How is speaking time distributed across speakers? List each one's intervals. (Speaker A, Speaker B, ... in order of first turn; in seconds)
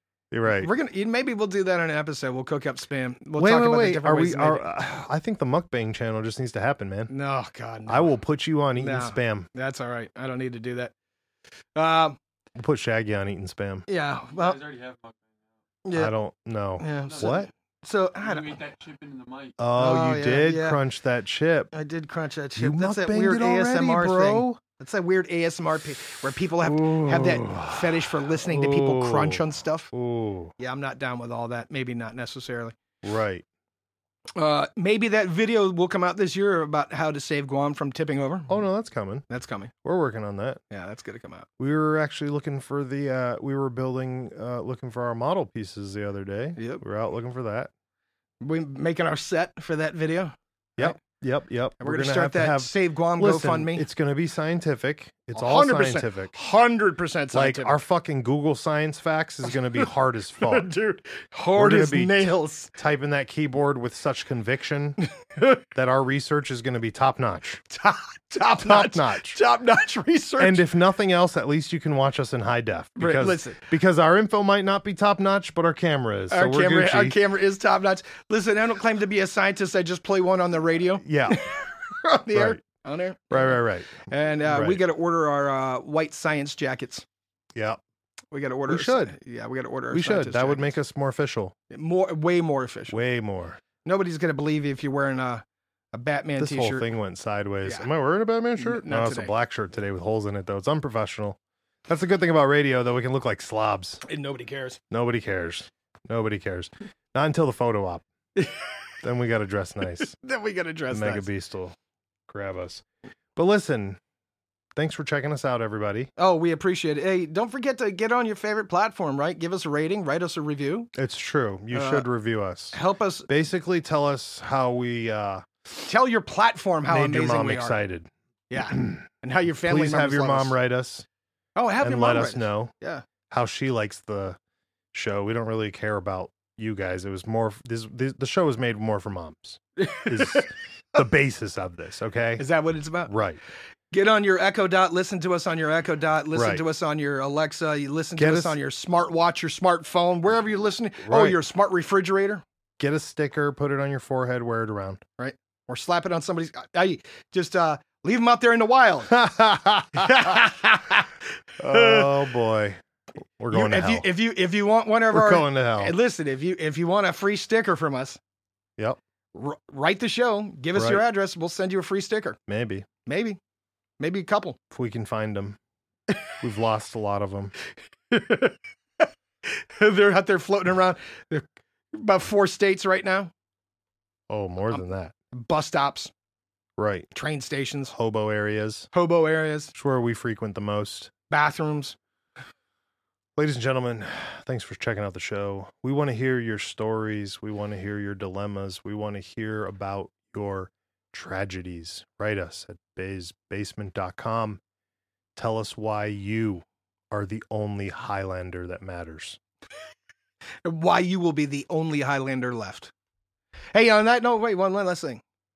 Speaker A: 0.3-0.7, 3.4-7.1, 7.9-9.5, 12.6-13.9, 15.9-17.5, 19.6-21.7, 22.6-24.6, 26.6-29.4, 29.9-30.5, 33.0-33.5, 38.5-39.3, 39.8-40.6, 41.6-47.7, 50.8-56.3, 57.3-60.7, 61.5-65.0, 65.7-67.6, 68.6-69.4, 70.4-77.2, 81.0-81.5, 82.3-82.6, 83.3-84.8, 87.5-87.8, 88.7-89.2, 89.9-91.5, 92.9-93.6, 96.4-104.0, 104.9-108.0, 109.0-110.2, 110.9-111.8, 112.3-112.8, 113.4-114.0, 114.8-116.1, 121.0-122.8, 123.3-125.5, 126.9-129.1, 129.6-131.1, 131.8-132.7, 133.3-134.4, 134.9-142.4, 143.1-143.4, 146.3-146.6, 148.2-148.6, 151.1-151.4, 152.8-155.0, 159.1-160.4, 161.6-162.8, 163.4-164.1, 165.1-165.9, 170.8-171.1, 172.5-172.9, 174.7-175.6, 176.4-177.5, 184.3-185.1, 186.8-187.1, 187.9-188.9, 189.7-191.1, 193.4-204.6, 205.3-209.4
Speaker B: 0.5-4.6, 7.1-8.2, 8.8-10.9, 11.8-12.2, 13.9-14.7, 15.8-16.1, 16.8-18.6, 19.8-20.8, 21.7-29.9, 30.6-32.8, 34.4-38.6, 39.3-39.7, 40.7-41.5, 46.6-46.8, 48.4-51.0, 51.8-53.9, 55.3-57.8, 60.4-62.7, 65.1-65.6, 67.7-70.7, 73.0-73.6, 76.3-87.0, 88.3-90.8, 91.7-93.0, 93.8-96.9, 98.6-99.3, 104.0-104.8, 108.4-108.7, 110.0-111.3, 116.2-120.9, 121.7-122.1, 122.7-123.3, 125.8-127.8, 128.5-130.6, 131.6-133.1, 139.8-140.5, 142.4-143.1, 143.9-152.4, 155.2-159.2, 159.9-162.1, 163.5-168.2, 169.3-172.4, 173.1-173.4, 174.0-174.6, 178.1-183.3, 185.3-186.1, 187.1-187.9, 188.9-189.7, 191.3-192.0, 210.7-212.9, 213.7-215.2
Speaker C: 14.3-15.3, 18.2-19.6